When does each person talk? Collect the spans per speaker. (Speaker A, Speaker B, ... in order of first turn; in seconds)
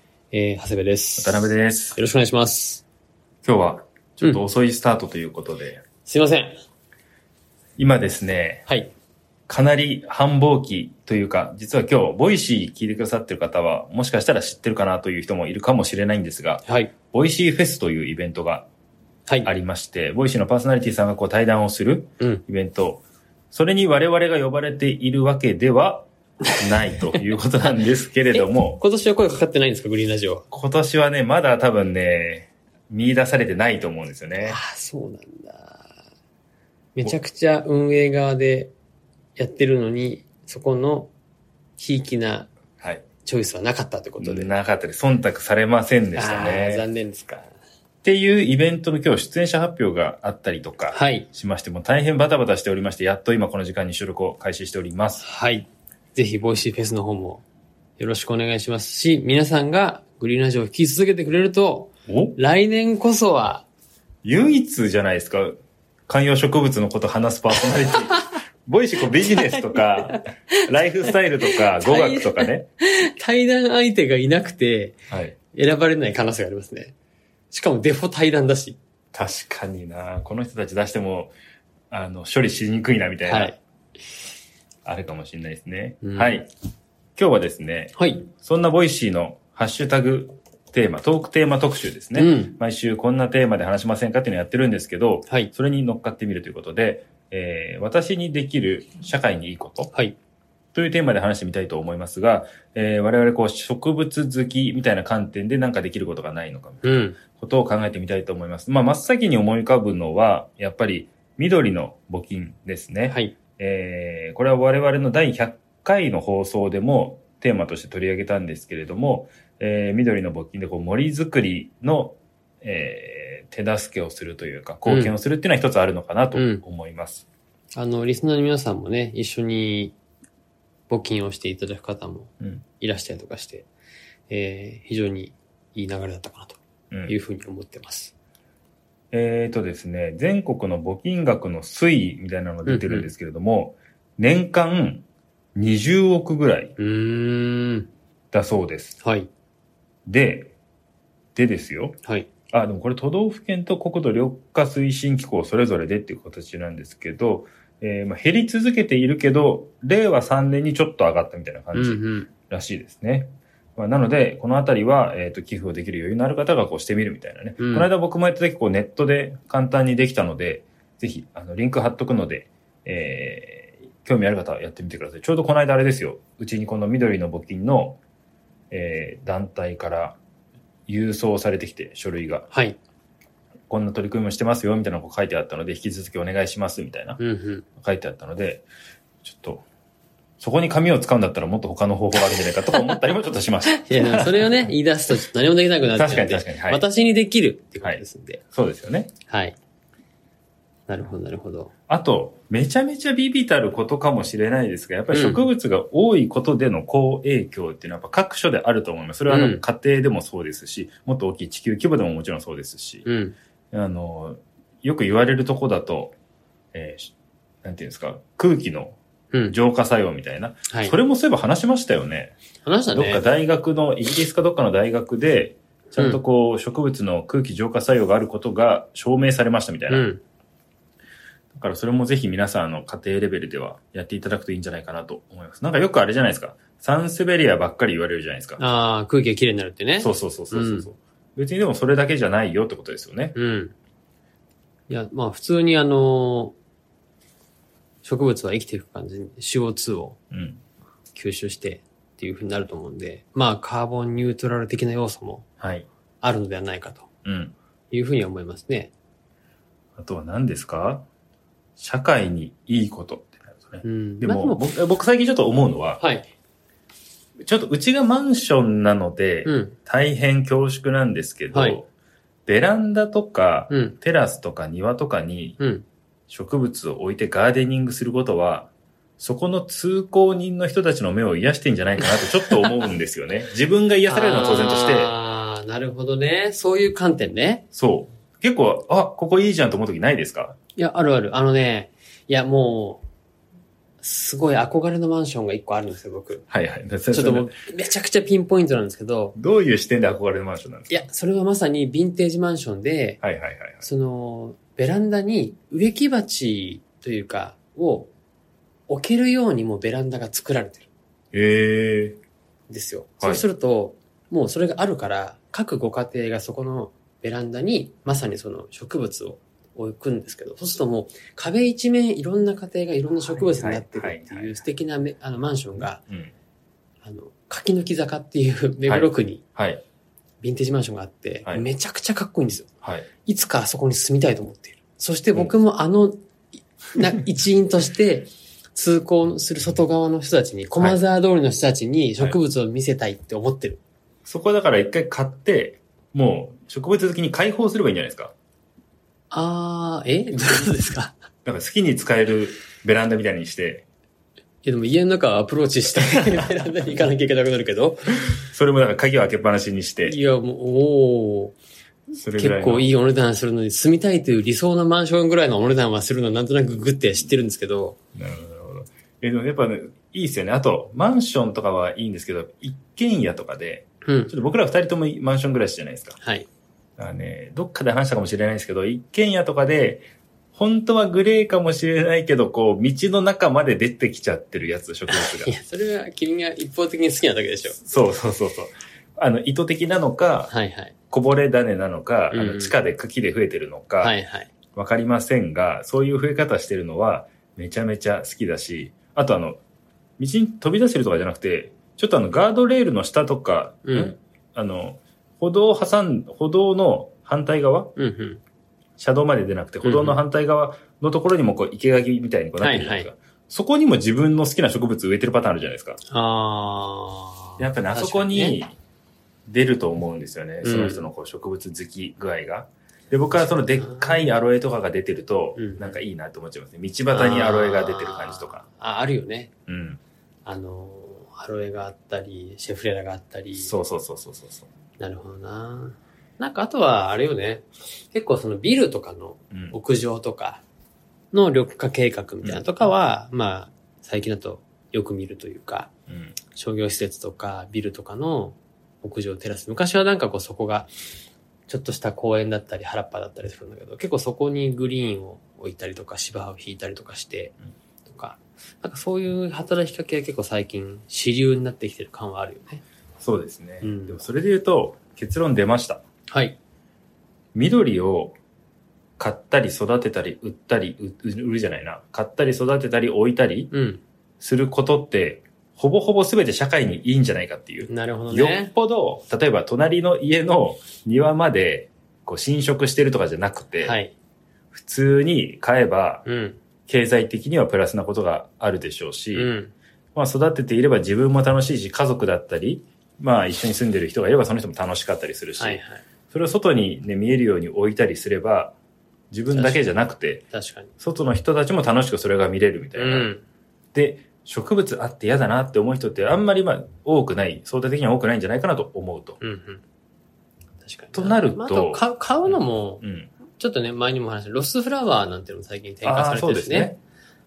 Speaker A: 0.3-2.8, 6.0-6.5, 16.6-16.9, 28.3-30.5, 34.5-35.9, 37.0-38.7, 39.4-41.1, 41.8-42.5, 43.2-44.5, 46.1-47.5, 50.9-51.3, 55.2-57.4, 58.0-63.6, 69.2-70.2, 71.5-75.0, 75.5-76.9, 77.5-78.8, 83.2-83.6, 86.0-86.4, 88.0-88.3, 92.2-92.5, 106.8-107.2, 124.9-125.1, 126.3-126.6, 127.7-129.9, 130.9-133.7, 134.3-138.1, 142.7-143.1, 146.8-147.9, 149.0-149.3, 161.7-162.3, 167.6-167.9, 182.5-182.8, 187.2-187.6, 193.7-198.4, 199.3-199.6, 200.9-201.7, 205.1-205.5, 209.3-209.6, 213.0-213.3, 220.7-220.9, 222.6-223.3, 225.9-226.2, 229.9-230.2, 238.6-240.9, 243.3-243.7, 244.9-246.6, 248.0-250.2, 251.1-255.4, 256.2-257.1, 257.9-258.9, 263.8-264.7, 266.0-266.3, 269.4-269.8, 271.5-271.8, 273.7-273.9, 275.6-275.8, 284.1-287.6, 290.8-293.0, 294.0-296.4, 297.1-299.4, 300.9-303.2, 303.8-308.1, 308.9-310.9, 312.7-326.0, 327.0-329.4, 330.4-332.7, 333.2-336.2, 336.9-343.8, 349.3-351.1, 354.6-358.3, 360.1-361.5, 362.4-367.9, 374.0-374.3, 376.2-376.5, 385.1-387.8, 390.5-390.9, 392.3-392.7, 394.0-394.5, 403.8-404.1, 408.0-408.4, 409.8-410.2, 412.6-413.1, 416.1-418.6, 420.6-421.1, 423.3-424.3, 425.6-425.9, 427.1-429.5, 430.4-433.7, 435.0-440.6, 441.3-445.9, 446.5-450.9, 451.7-457.5, 458.1-462.8, 463.8-464.2, 466.3-466.6, 473.7-474.0, 477.9-478.7, 483.8-484.1, 486.2-486.6, 489.3-489.7, 495.6-496.0, 499.5-500.9, 502.9-503.4, 509.4-509.8, 510.8-513.0, 513.5-516.9
Speaker B: 1.2-2.0, 3.4-5.8, 7.8-8.7, 9.5-18.7, 19.4-28.8, 30.5-34.6, 44.2-46.8, 48.0-55.2, 62.1-62.4, 64.2-72.7, 75.1-75.4, 79.1-81.3, 81.9-83.5, 84.8-86.5, 87.2-99.9, 100.7-127.3, 139.1-146.7, 148.3-149.0, 150.1-150.5, 151.3-152.0, 152.5-178.0, 178.7-180.2, 180.9-182.5, 183.7-187.2, 187.8-188.7, 189.2-189.6, 190.4-194.7, 195.9-196.8, 198.5-199.1, 201.9-213.1, 213.7-216.1, 216.7-217.1, 217.6-219.0, 219.5-222.3, 222.9-230.1, 231.5-238.6, 240.0-243.3, 250.3-250.6, 255.6-255.9, 257.2-257.5, 260.0-261.0, 261.8-266.0, 267.4-271.9, 272.4-275.6, 276.3-285.1, 287.7-290.6, 296.5-297.5, 299.4-301.1, 303.2-303.8, 311.3-312.2, 323.2-324.6, 326.0-326.3, 328.9-329.8, 332.8-333.1, 344.2-348.3, 351.4-353.8, 358.3-360.2, 362.2-362.9, 368.1-376.2, 377.0-385.5, 387.8-390.5, 391.1-394.1, 394.7-399.6, 400.2-407.9, 409.0-416.0, 417.6-418.7, 419.5-428.6, 429.7-430.0, 433.6-434.7, 439.5-439.8, 446.1-446.4, 463.2-466.0, 467.5-468.4, 469.2-473.7, 474.4-484.0, 484.7-486.2, 486.9-489.5, 490.1-498.8, 499.3-500.4, 501.0-503.3, 503.9-509.4, 511.1-513.3, 516.0-517.0